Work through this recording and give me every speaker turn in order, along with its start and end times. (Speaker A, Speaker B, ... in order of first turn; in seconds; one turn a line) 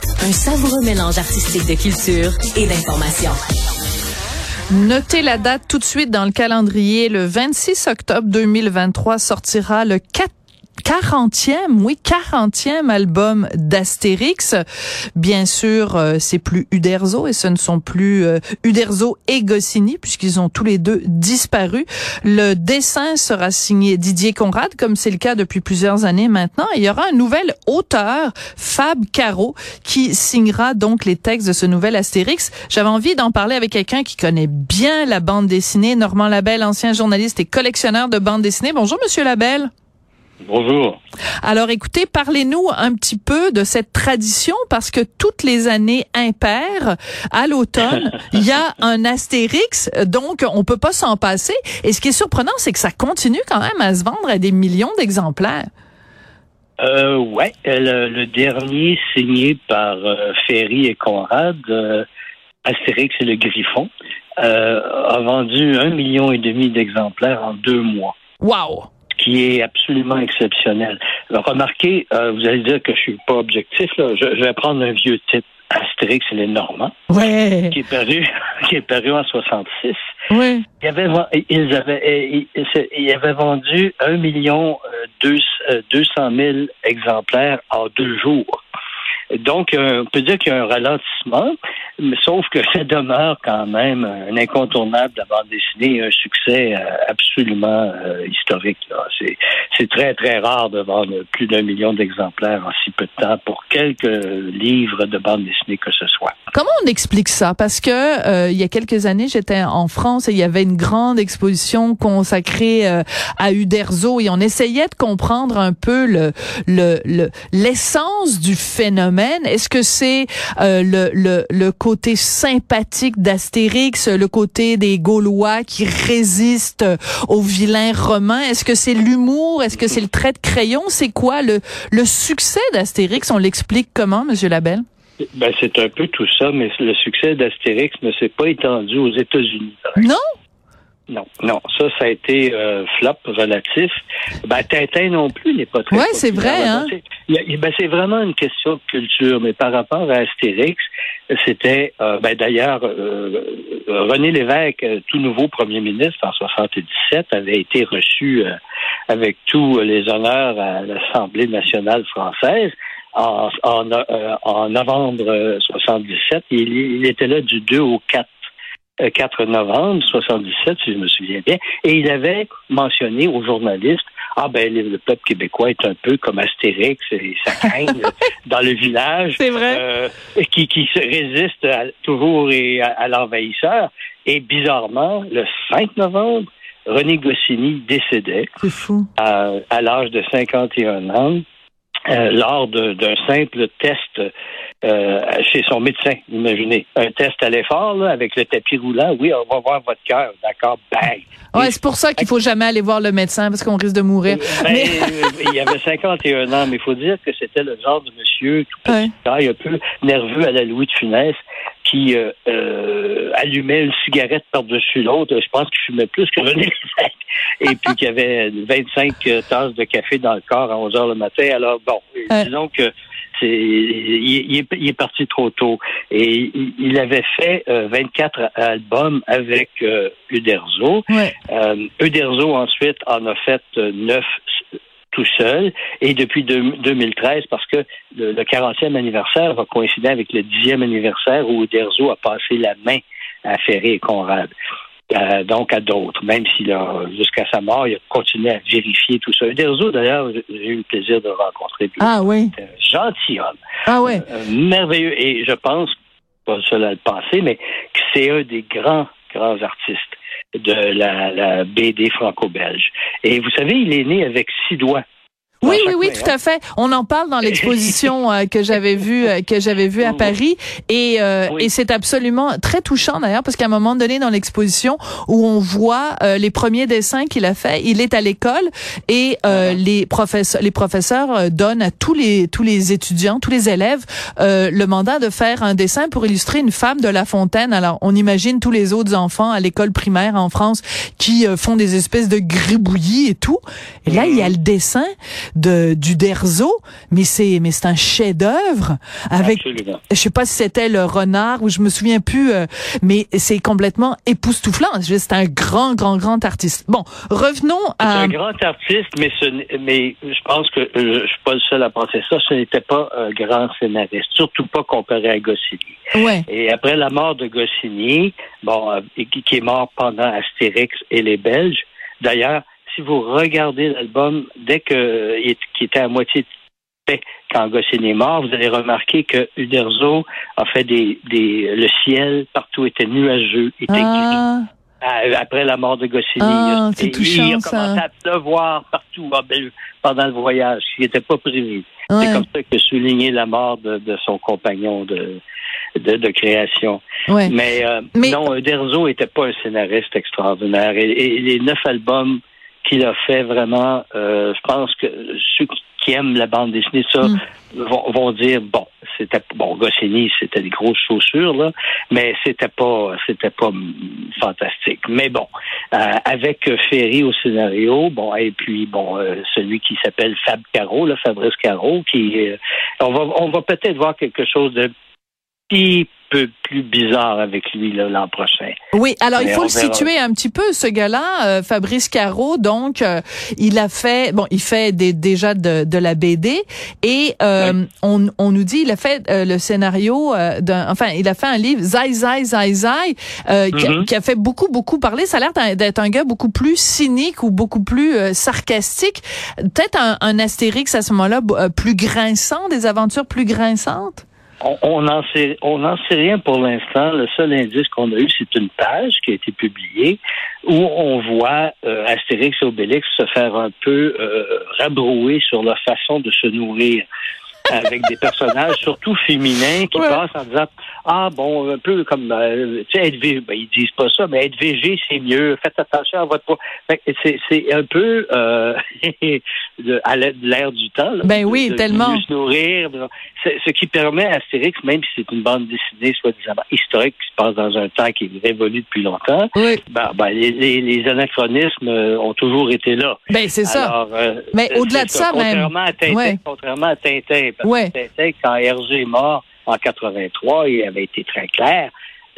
Speaker A: 0.2-3.4
Speaker B: 4.7-10.3
Speaker B: 10.8-14.6
Speaker B: 15.2-39.7
Speaker C: 40.5-41.0
Speaker B: 41.4-55.7
Speaker C: 56.8-62.1
Speaker C: 62.6-63.9
Speaker C: 64.4-68.1
Speaker B: 68.4-68.9
Speaker C: 69.2-76.9
Speaker B: 77.1-77.8
Speaker C: 77.7-80.0
Speaker B: 80.3-80.6
Speaker C: 80.8-88.6
Speaker C: 89.3-106.3
Speaker B: 106.5-134.8
Speaker C: 135.3-140.1
Speaker C: 141.1-158.5
Speaker B: 145.9-146.9
Speaker C: 159.1-168.3
Speaker C: 169.0-188.5
Speaker B: 179.3-179.8
Speaker B: 188.6-189.1
Speaker C: 189.2-191.4
Speaker C: 192.1-194.3
Speaker C: 194.8-202.3
Speaker B: 201.5-205.5
Speaker C: 204.3-234.3
Speaker B: 208.9-209.1
Speaker B: 231.1-231.3
Speaker C: 235.1-244.5
Speaker C: 245.1-255.9
Speaker B: 252.0-252.5
Speaker B: 253.8-254.2
Speaker C: 256.5-265.0
Speaker B: 265.6-308.3
Speaker C: 265.6-266.3
Speaker C: 270.0-270.3
Speaker C: 279.5-279.8
Speaker C: 294.1-294.5
Speaker C: 299.4-300.0
Speaker C: 308.0-316.0
Speaker B: 316.1-316.4
Speaker C: 316.5-326.5
Speaker C: 327.1-334.4
Speaker B: 333.9-334.6
Speaker C: 335.0-345.4
Speaker B: 336.4-338.0
Speaker B: 342.1-342.4
Speaker C: 346.0-374.9
Speaker B: 347.3-347.5
Speaker B: 348.1-348.4
Speaker C: 375.7-378.8
Speaker B: 378.9-404.2
Speaker C: 379.4-380.1
Speaker C: 393.7-394.1
Speaker C: 404.6-417.1
Speaker C: 417.7-451.9
Speaker B: 419.9-420.2
Speaker B: 431.2-432.2
Speaker B: 439.6-439.8
Speaker B: 443.3-443.9
Speaker B: 444.5-446.4
Speaker B: 447.6-447.9